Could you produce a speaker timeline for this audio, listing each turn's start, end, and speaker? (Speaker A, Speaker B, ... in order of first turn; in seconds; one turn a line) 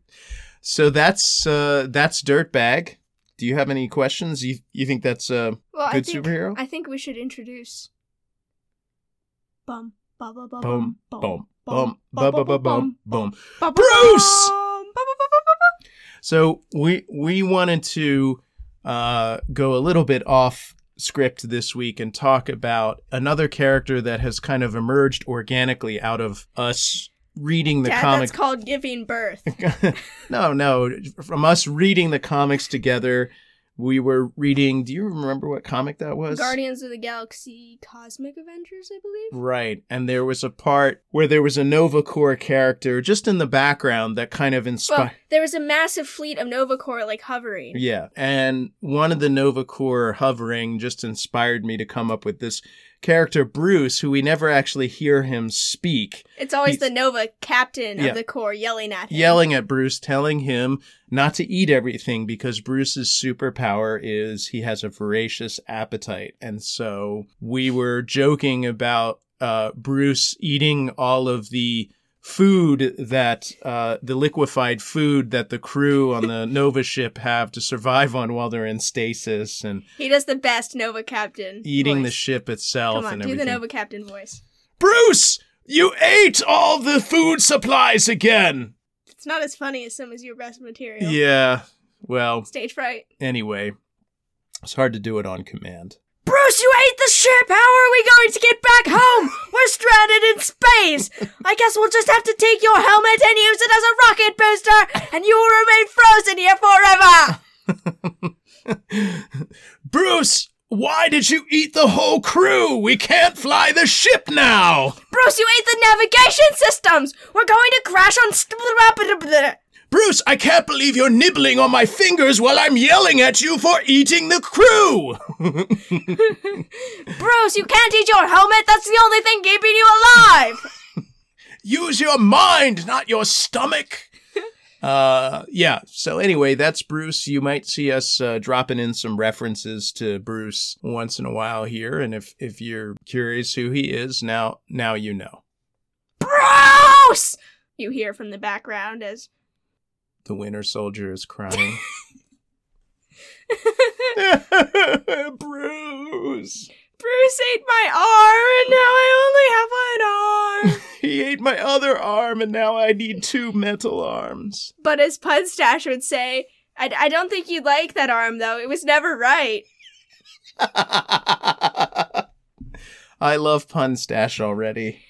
Speaker A: 0.6-6.6
Speaker B: 5.7-7.9
Speaker B: 9.7-15.7
Speaker A: 10.6-14.5
Speaker A: 16.2-28.3
Speaker B: 27.9-29.6
Speaker A: 29.5-36.6
Speaker B: 36.3-39.3
Speaker A: 39.3-45.1
Speaker B: 44.9-47.8
Speaker A: 47.7-56.8
Speaker B: 56.4-59.4
Speaker A: 59.1-79.8
Speaker B: 80.0-82.1
Speaker A: 81.6-83.6
Speaker B: 82.9-84.4
Speaker A: 84.8-88.7
Speaker B: 89.1-91.2
Speaker A: 91.0-92.5
Speaker B: 92.5-93.1
Speaker A: 93.2-93.7
Speaker A: 94.6-96.0
Speaker B: 96.2-107.4
Speaker A: 107.9-115.0
Speaker B: 115.1-119.6
Speaker A: 119.9-126.2
Speaker B: 126.1-130.7
Speaker A: 131.6-134.1
Speaker A: 134.8-145.4
Speaker B: 146.2-149.3
Speaker A: 150.3-151.8
Speaker B: 153.5-154.2
Speaker A: 154.2-156.7
Speaker B: 157.0-160.8
Speaker A: 160.7-164.7
Speaker B: 164.8-169.7
Speaker A: 170.6-172.2
Speaker A: 173.2-175.0